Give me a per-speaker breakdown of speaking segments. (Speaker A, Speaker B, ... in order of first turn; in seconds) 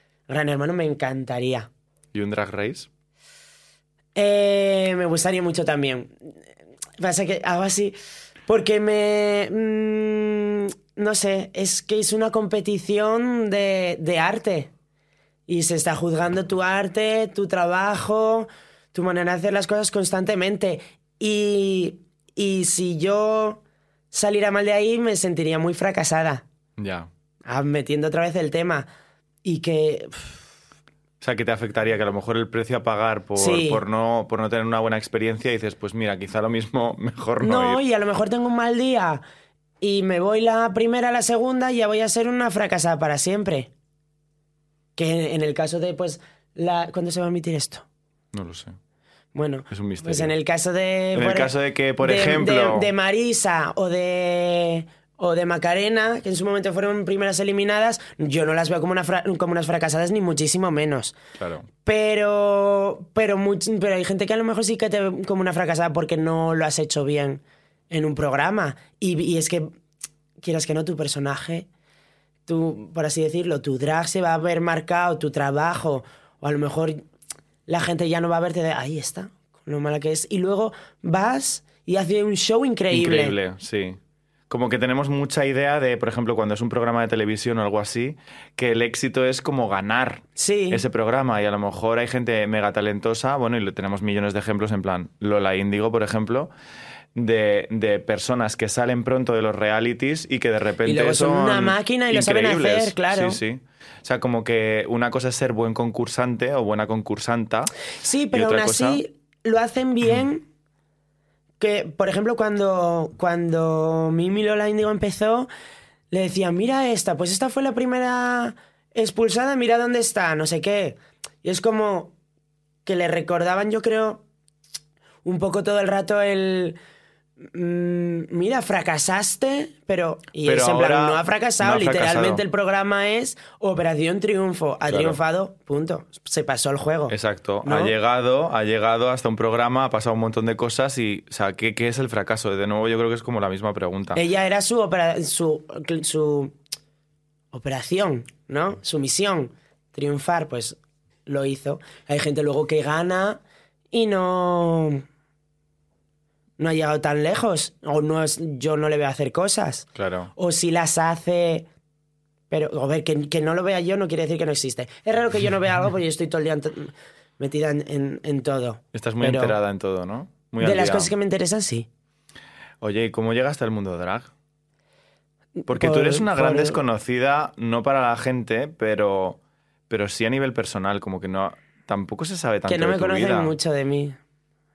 Speaker A: 0.3-1.7, 4.2-6.1, 7.0-8.0, 8.5-14.7, 15.5-23.6, 24.1-26.4, 27.4-28.9, 29.4-30.4, 33.4-33.8, 37.4-39.2, 39.8-43.7, 45.0-47.9, 49.3-61.2, 61.9-69.7, 70.4-71.7, 72.5-77.0, 77.7-83.3, 90.4-90.8, 100.8-103.4, 108.0-110.5, 111.6-115.5, 116.1-122.2, 122.8-124.2, 125.2-126.8, 127.4-137.9, 144.2-146.5, 147.5-155.0, 156.6-161.7, 162.5-169.6, 170.6-171.9, 175.6-176.8, 182.7-184.2
Speaker B: 2.1-2.9, 26.8-27.1, 31.2-37.8, 48.3-48.8, 49.7-50.3, 51.1-52.9, 61.4-61.7, 82.9-84.0, 84.5-96.5, 97.2-107.7, 108.3-109.0, 130.4-132.4, 134.9-135.2, 137.1-144.2, 159.9-160.3, 168.9-171.1, 172.8-174.3, 175.7-183.6